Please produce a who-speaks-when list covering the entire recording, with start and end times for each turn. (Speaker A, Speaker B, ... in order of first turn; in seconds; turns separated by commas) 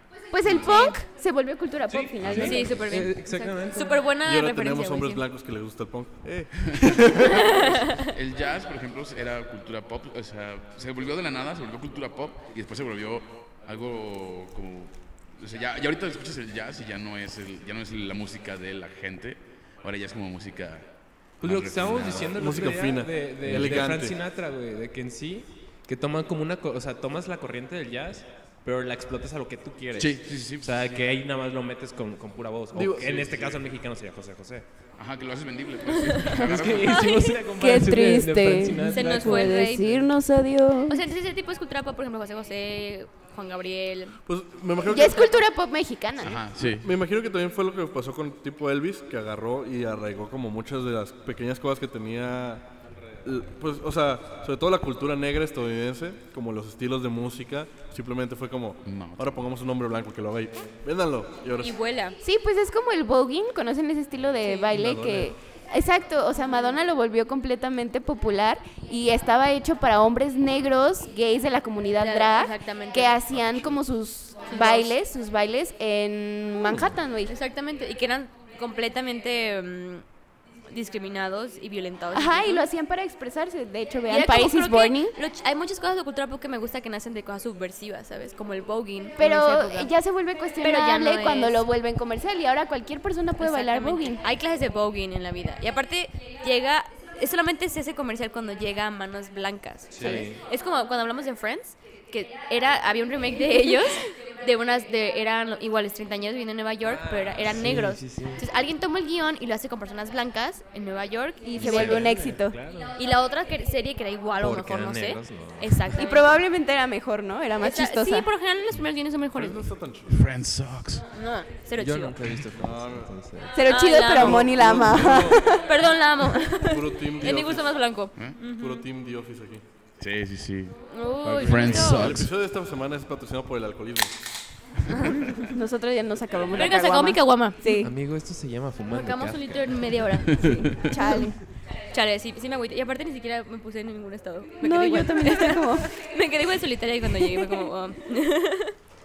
Speaker A: 0.3-2.8, Speaker B: 0.4-0.8, Speaker C: 0.6-1.0, Speaker D: 1.9-4.0, Speaker B: 2.2-2.9, Speaker C: 2.4-5.2, Speaker E: 4.2-7.5, Speaker C: 7.3-8.1, Speaker B: 7.5-22.4, Speaker D: 21.4-34.7, Speaker E: 22.4-24.2, Speaker B: 23.5-23.9, Speaker B: 30.0-30.9, Speaker E: 32.7-33.6, Speaker B: 35.0-37.2, Speaker C: 36.0-36.4, Speaker D: 36.2-40.1, Speaker A: 37.3-41.0, Speaker C: 38.8-39.9, Speaker C: 40.9-44.2, Speaker E: 44.3-45.3, Speaker A: 44.9-46.4, Speaker B: 46.2-46.9, Speaker E: 46.6-52.7, Speaker E: 53.2-61.8, Speaker B: 58.9-59.4, Speaker C: 61.6-62.2, Speaker A: 62.2-77.3, Speaker C: 64.4-64.7, Speaker E: 64.7-65.3, Speaker C: 72.0-73.2, Speaker C: 74.5-74.9, Speaker C: 77.3-80.0, Speaker C: 80.7-82.7, Speaker A: 82.1-85.2, Speaker C: 84.1-89.9, Speaker A: 89.2-94.2, Speaker C: 90.6-91.7, Speaker C: 93.4-112.1, Speaker D: 99.9-100.4, Speaker D: 106.8-108.4, Speaker A: 111.5-112.6, Speaker D: 111.6-113.0, Speaker C: 113.0-116.3, Speaker D: 114.4-116.0, Speaker A: 116.0-118.3, Speaker C: 117.6-119.6, Speaker E: 119.3-120.3, Speaker B: 120.1-121.0, Speaker C: 121.1-122.2, Speaker D: 121.8-123.6, Speaker E: 122.5-123.1, Speaker A: 123.5-125.6, Speaker C: 123.7-128.9, Speaker E: 124.1-125.6, Speaker E: 126.5-127.7, Speaker E: 128.5-129.6, Speaker B: 130.0-130.8, Speaker C: 130.9-132.0, Speaker D: 131.2-132.0, Speaker B: 131.3-132.3, Speaker E: 131.7-134.2, Speaker C: 134.9-135.4, Speaker A: 135.5-137.9, Speaker C: 136.5-137.8, Speaker D: 137.7-140.4, Speaker C: 138.9-141.2, Speaker B: 140.3-140.9, Speaker A: 140.8-141.4, Speaker C: 141.9-148.8, Speaker A: 144.6-145.9